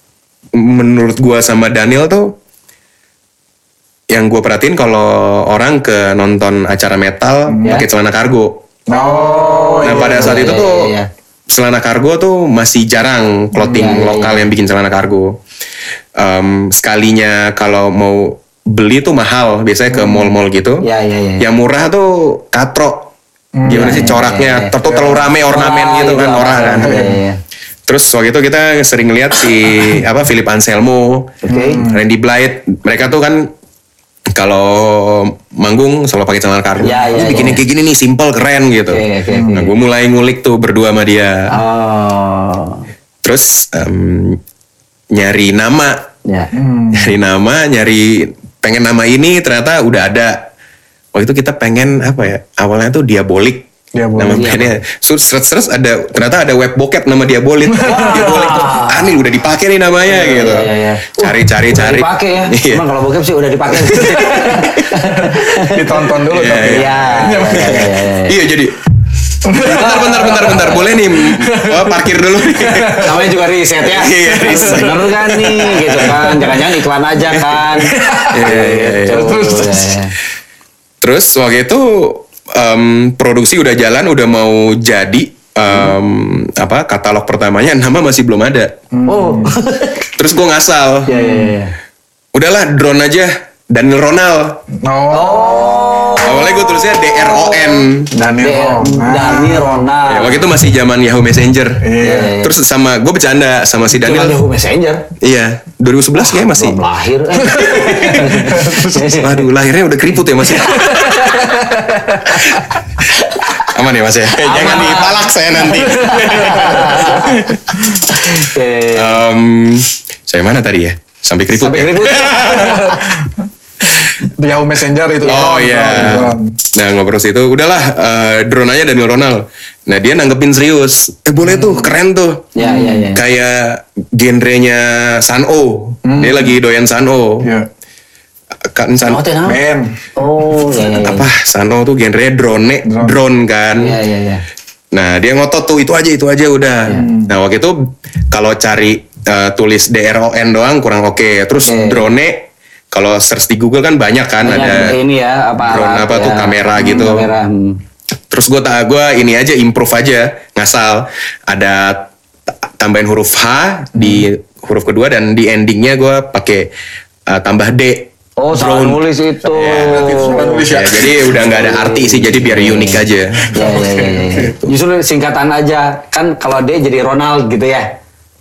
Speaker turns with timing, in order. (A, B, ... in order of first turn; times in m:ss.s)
0:00.5-0:02.4 A
0:04.1-0:08.7 A
0:07.5-0:07.8 B
0:08.9-0:10.5 B
0:08.9-0:11.1 C
0:09.8-0:10.9 A
0:11.5-0:15.4 A
0:13.6-0:13.9 B
0:13.7-0:14.4 C
0:16.1-0:20.8 A
0:19.9-0:20.3 B
0:20.8-0:21.4 C
0:21.4-0:23.1 A
0:23.5-0:24.2 B
0:23.6-0:27.0 A
0:23.7-0:24.7 C
0:24.8-0:25.3 B
0:25.4-0:27.4 C
0:26.8-0:27.2 B
0:27.9-0:33.5 A
0:31.4-0:31.8 C
0:31.5-0:32.0 B
0:34.3-0:41.5 A
0:36.8-0:37.6 C
0:38.9-0:39.7 C
0:39.3-0:39.6 B
0:41.5-0:42.8 C
0:43.2-0:44.4 A
0:45.1-0:46.0 A
0:46.2-0:46.5 C
0:46.5-0:47.1 B
0:46.9-0:50.5 A
0:51.1-1:02.8 A
0:53.9-0:54.5 B
0:54.3-0:54.7 C
0:57.7-0:58.3 B
0:57.8-0:59.1 C
1:00.0-1:06.0 C
1:03.8-1:04.7 A
1:05.3-1:07.9 B
1:06.3-1:08.8 A
1:06.7-1:08.4 C
1:09.4-1:13.2 B
1:09.5-1:13.2 A
1:09.6-1:10.9 C
1:13.0-1:20.1 C
1:13.8-1:16.4 A
1:14.3-1:14.8 B
1:16.1-1:16.6 B
1:17.7-1:18.5 B
1:18.3-1:19.5 A
1:19.1-1:19.9 B
1:21.0-1:28.8 A
1:28.9-1:29.5 B
1:29.0-1:30.1 C
1:30.1-1:31.1 A
1:31.0-1:31.7 C
1:31.1-1:31.5 B
1:32.3-1:34.6 A
1:34.7-1:36.0 B
1:35.1-1:37.8 C
1:36.2-1:38.1 A
1:38.1-1:39.8 B
1:38.4-1:40.5 C
1:40.0-1:44.4 A
1:41.8-1:42.3 B
1:42.0-1:42.5 C
1:43.9-1:45.1 C
1:45.2-1:46.8 A
1:46.3-1:49.4 C
1:47.4-1:52.7 A
1:48.3-1:48.9 B
1:50.6-1:53.7 C
1:53.5-1:57.6 A
1:54.3-1:59.2 C
1:58.9-2:03.1 A
2:01.6-2:03.1 C
2:04.0-2:06.6 B
2:05.2-2:12.5 A
2:12.5-2:13.2 C
2:12.6-2:13.1 B
2:13.1-2:17.5 A
2:16.0-2:16.6 B
2:17.4-2:17.7 B
2:18.6-2:19.2 A
2:19.1-2:19.6 C
2:19.4-2:20.0 B
2:20.2-2:21.3 C
2:20.9-2:24.0 A
2:22.8-2:23.2 B
2:23.8-2:24.4 C
2:24.9-2:35.0 A
2:26.9-2:27.3 B
2:31.6-2:32.0 C
2:34.4-2:37.8 C
2:35.6-2:37.3 A
2:38.3-2:42.1 A
2:42.7-2:46.7 A
2:44.0-2:44.2 B
2:47.3-2:53.5 A
2:48.4-2:50.7 C
2:49.8-2:51.4 B
2:51.3-2:57.9 C
2:53.6-2:54.2 B
2:54.4-2:54.7 A